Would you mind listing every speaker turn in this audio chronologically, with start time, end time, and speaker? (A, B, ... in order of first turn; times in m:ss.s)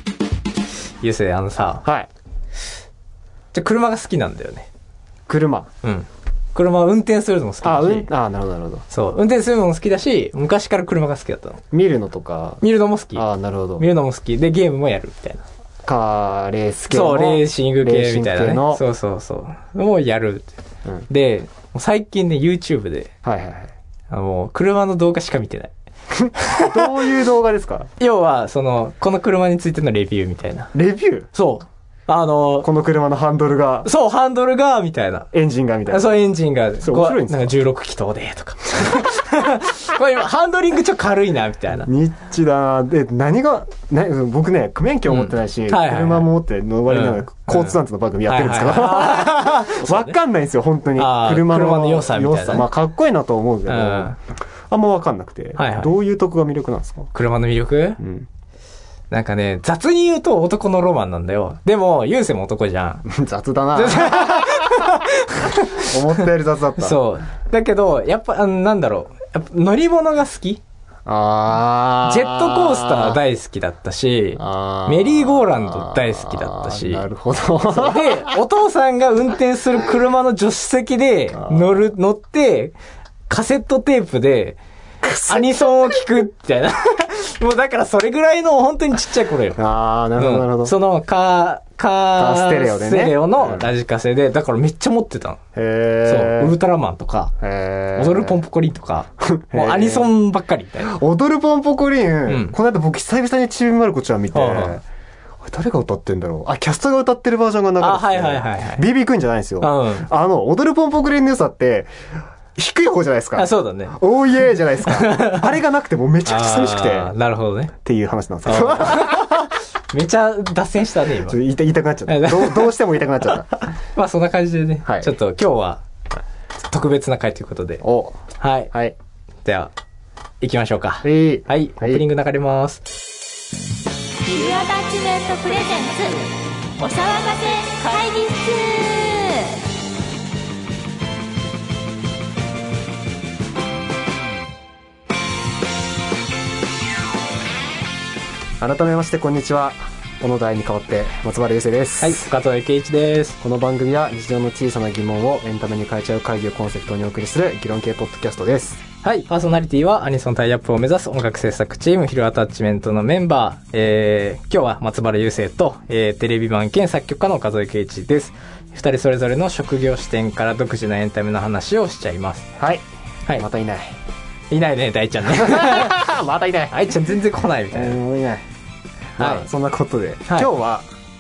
0:01.0-0:01.8 A
0:01.8-0:02.1 B
0:03.5-0:04.7 A
0:05.3-0:05.7 B
0:05.8-0:08.1 A
0:07.6-0:08.9 B
0:08.9-0:11.6 A
0:11.7-0:12.6 B
0:12.6-0:13.2 A
0:13.2-0:13.9 B
0:13.8-0:15.4 A
0:15.8-0:18.8 B
0:16.9-0:20.5 A
0:21.1-0:23.1 A
0:23.2-0:23.7 B
0:24.1-0:25.7 A
0:26.2-0:27.9 B
0:26.4-0:26.9 A
0:28.0-0:30.7 A
0:30.7-0:31.3 B
0:31.4-0:32.7 A
0:32.6-0:33.9 B
0:33.8-0:35.3 A
0:35.3-0:36.1 B
0:35.9-0:41.9 A
0:36.8-0:37.6 B
0:41.8-0:54.2 B
0:45.1-0:46.3 A
0:46.9-0:50.2 A
0:51.0-0:52.7 A
0:53.7-0:54.2 A
0:54.7-0:57.1 B
0:55.6-0:55.9 A
0:57.1-0:58.0 A
0:58.0-0:58.3 B
0:59.1-1:03.1 A
1:03.1-1:07.0 B
1:03.7-1:06.2 A
1:06.8-1:10.6 A
1:11.1-1:13.2 B
1:12.1-1:17.1 A
1:14.4-1:18.4 B
1:17.7-1:22.8 A
1:21.3-1:21.8 B
1:23.3-1:24.6 A
1:25.0-1:25.6 B
1:25.3-1:29.6 A
1:29.6-1:30.8 B
1:30.2-1:35.4 A
1:32.2-1:33.7 B
1:35.6-1:36.6 B
1:36.1-1:37.3 A
1:37.4-1:38.4 B
1:38.0-1:40.9 A
1:39.2-1:40.1 B
1:40.8-1:44.8 B
1:42.3-1:42.6 A
1:44.3-1:44.8 A
1:45.4-1:51.9 B
1:47.8-1:48.9 A
1:49.6-1:50.1 A
1:52.6-1:57.1 B
1:53.4-1:54.0 A
1:54.8-1:55.6 A
1:56.2-1:57.7 A
1:57.8-1:59.5 B
1:58.5-2:01.4 A
2:01.3-2:03.7 B
2:02.1-2:02.7 A
2:04.0-2:05.8 A
2:04.9-2:05.1 B
2:06.7-2:07.8 A
2:07.8-2:09.0 B
2:08.4-2:08.7 A
2:09.4-2:09.7 A
2:10.4-2:12.8 A
2:11.0-2:12.0 B
2:14.2-2:19.6 C
2:28.6-2:32.3 B
2:32.0-2:33.4 A
2:33.4-2:38.8 B
2:39.0-2:52.5 A
2:52.6-2:54.0 B
2:54.5-2:56.0 A
2:55.3-2:56.9 B
2:56.7-2:58.0 A
2:57.7-2:58.4 B
2:59.2-2:59.5 A
2:59.2-3:00.9 B